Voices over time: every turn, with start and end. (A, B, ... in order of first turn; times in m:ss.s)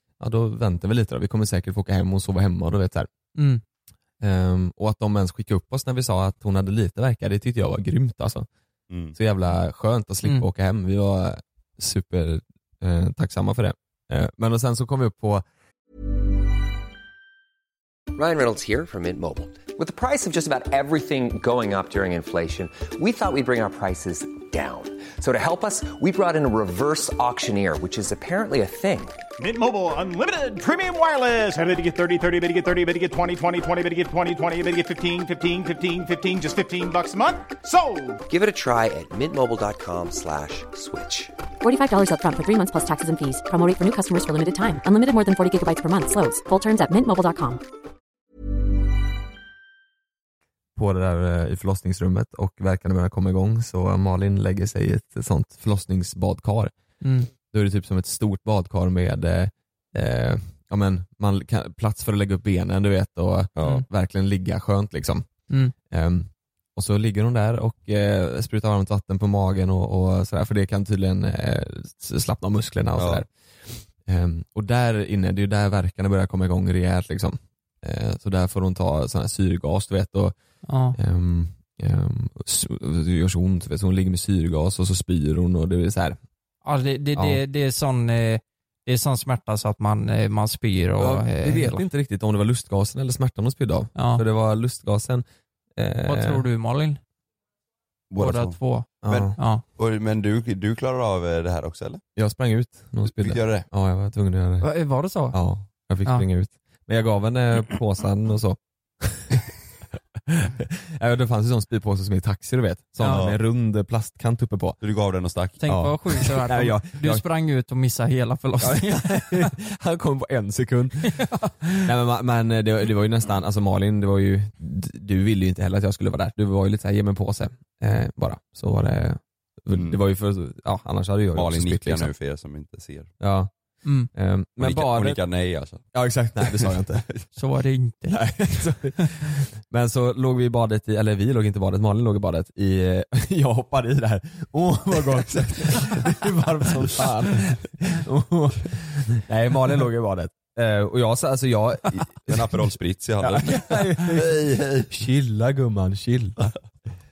0:00.2-0:03.1 A
0:03.4-0:03.6 B
0:04.2-0:08.5 A
0:08.9-0:09.2 C
0:09.2-0:15.4 A
0:18.1-0:29.2 D
0:29.4-0:38.2 E
0:38.3-0:41.3 D
0:41.6-0:47.6 F
0:50.8-0:56.7 A
0:57.0-0:57.3 B
0:57.5-1:05.3 A
1:03.6-1:03.8 C
1:05.9-1:13.3 A
1:13.0-1:13.2 C
1:14.0-1:20.4 A
1:20.7-1:21.0 B
1:20.9-1:26.2 A
1:26.6-1:31.8 B
1:27.2-1:27.4 A
1:31.0-1:35.2 A
1:34.0-1:34.2 B
1:35.8-1:36.5 A
1:36.0-1:37.0 B
1:38.1-1:42.0 C
1:38.2-1:39.6 B
1:39.0-1:39.4 A
1:42.2-1:44.7 A
1:43.1-1:43.7 C
1:44.6-1:45.4 B
1:45.3-1:49.5 A
1:50.3-1:54.8 A
1:53.0-1:53.3 B
1:53.1-1:53.4 C
1:54.8-1:55.6 C
1:55.6-1:59.5 B
1:55.6-1:57.2 A
1:58.6-2:01.2 A
2:01.1-2:01.9 B
2:01.8-2:12.1 A
2:11.4-2:13.1 C
2:13.2-2:13.5 A
2:14.1-2:15.2 A
2:14.6-2:15.9 C
2:15.9-2:17.1 A
2:16.4-2:17.2 C
2:17.4-2:19.1 B
2:18.1-2:36.5 A
2:25.4-2:25.8 C
2:32.0-2:34.9 C